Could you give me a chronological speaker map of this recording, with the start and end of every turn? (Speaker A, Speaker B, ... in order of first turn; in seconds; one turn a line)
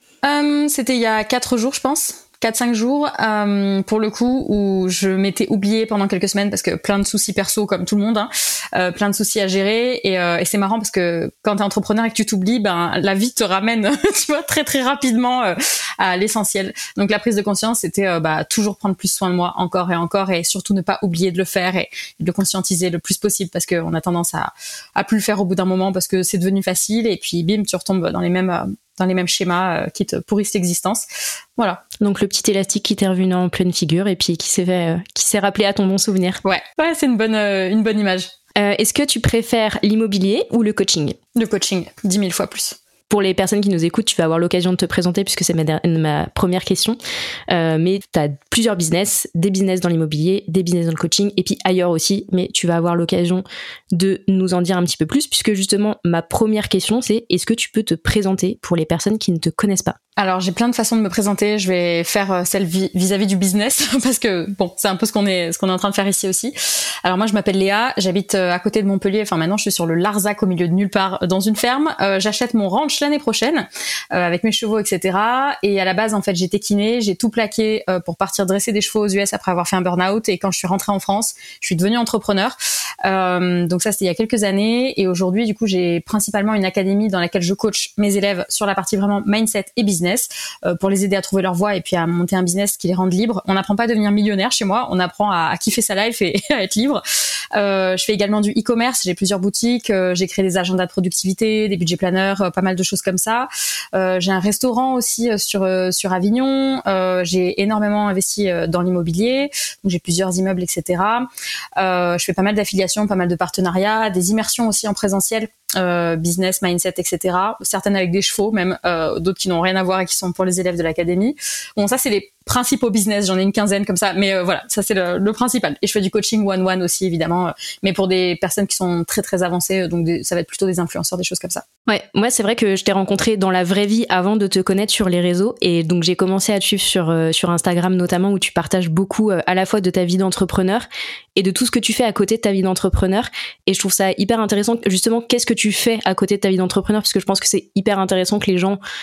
Speaker A: 0.2-31.1
Speaker A: 31.6-31.8
Speaker B: 32.0-36.4
Speaker A: 36.4-38.3
Speaker B: 38.5-41.2
Speaker A: 41.3-42.8
Speaker B: 43.1-47.0
Speaker B: 47.5-60.0
Speaker A: 60.2-66.5
Speaker A: 67.0-97.0
Speaker A: 97.5-131.6
Speaker B: 131.9-148.8